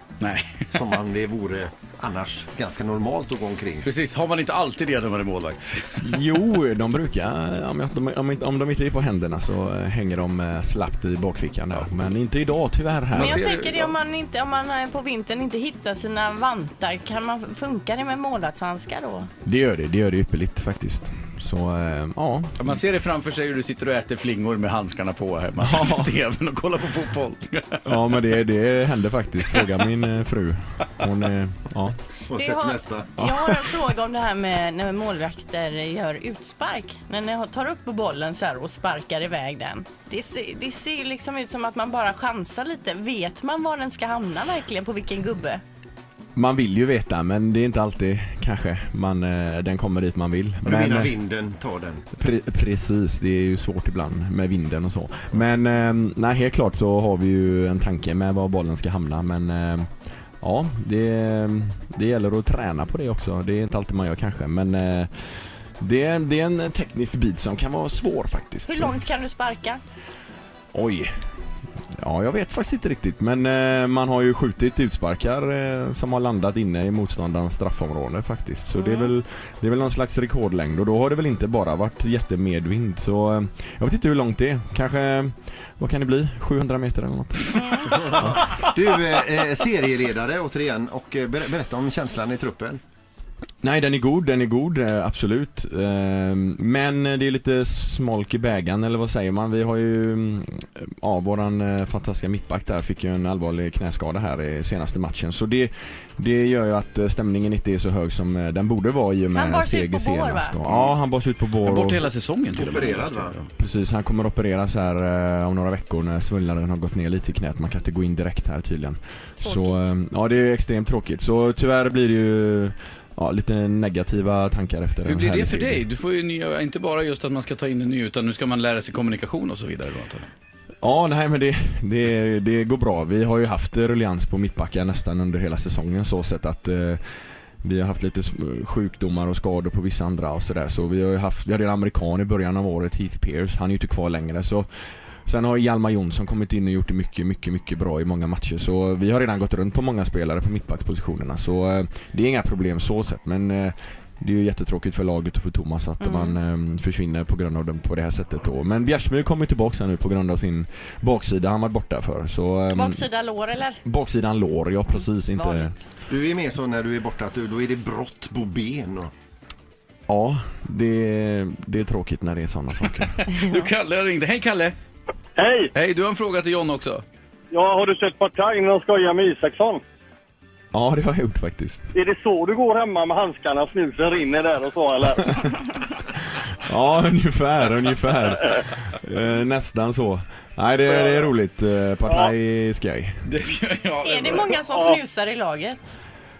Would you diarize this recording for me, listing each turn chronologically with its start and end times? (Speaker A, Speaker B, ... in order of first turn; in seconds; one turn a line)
Speaker A: 0.2-0.8
Speaker B: 0.7-3.9
Speaker A: 3.8-6.4
Speaker C: 6.0-13.4
Speaker A: 13.1-14.0
Speaker D: 13.1-19.3
Speaker C: 19.4-22.6
Speaker A: 22.6-27.9
Speaker C: 25.6-26.1
Speaker C: 27.9-32.0
Speaker B: 32.3-33.1
Speaker D: 32.3-45.6
Speaker C: 46.3-51.1
Speaker B: 50.6-52.0
Speaker C: 52.1-59.9
Speaker C: 60.4-65.1
Speaker C: 65.8-69.0
Speaker D: 68.7-69.8
Speaker C: 70.7-71.1
Speaker C: 71.9-88.4
Speaker D: 78.7-79.1
Speaker D: 87.5-87.9
Speaker B: 87.9-92.8
Speaker C: 93.6-112.1
Speaker D: 109.3-110.6
Speaker A: 110.7-111.0
Speaker A: 111.6-113.5
Speaker B: 112.5-113.4
Speaker C: 113.5-125.8
Speaker D: 119.4-119.9
Speaker A: 125.0-130.3
Speaker C: 130.8-137.0
Speaker C: 137.6-144.7
Speaker C: 145.2-163.1
Speaker D: 156.0-156.4
Speaker D: 162.7-163.8
Speaker C: 163.8-165.7
Speaker D: 165.3-165.8
Speaker B: 166.1-169.1
Speaker C: 170.1-173.4
Speaker A: 173.3-174.8
Speaker E: 175.4-175.7
Speaker A: 175.7-177.0
Speaker E: 177.5-179.8
Speaker C: 180.7-181.8
Speaker E: 181.9-185.5
Speaker C: 186.3-193.2
Speaker A: 193.2-194.6
Speaker D: 194.0-195.9